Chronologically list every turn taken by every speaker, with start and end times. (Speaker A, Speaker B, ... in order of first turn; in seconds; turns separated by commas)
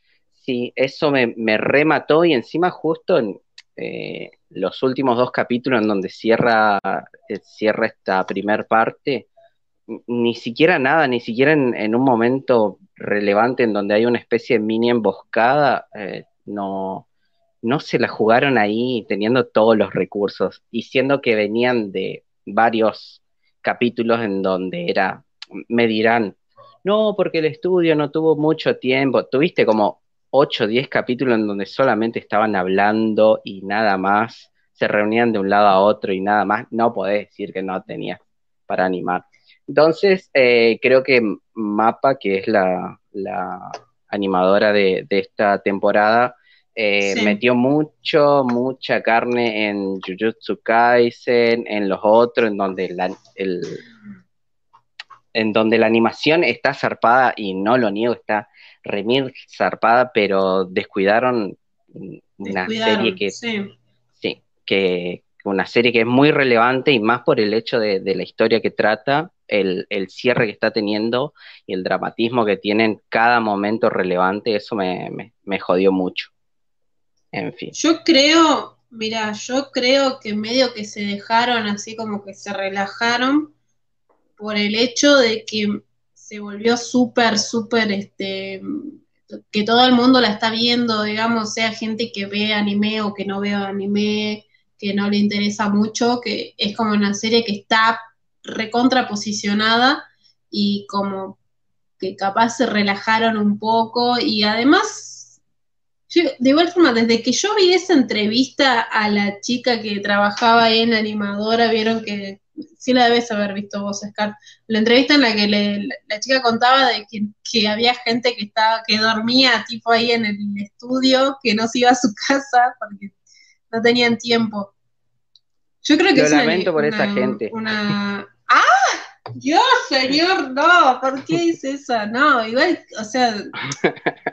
Speaker A: 0.4-9.3, Speaker A: 9.9-17.1, Speaker A: 17.6-53.8, Speaker B: 47.0-47.4, Speaker A: 55.3-63.4, Speaker B: 62.4-63.7, Speaker A: 64.2-76.3, Speaker A: 77.3-77.7, Speaker B: 77.8-83.5, Speaker B: 84.4-89.0, Speaker B: 89.5-101.4, Speaker B: 102.0-105.4, Speaker B: 106.1-123.1, Speaker B: 123.7-124.7, Speaker B: 125.8-133.5, Speaker A: 126.2-127.5, Speaker A: 133.8-134.1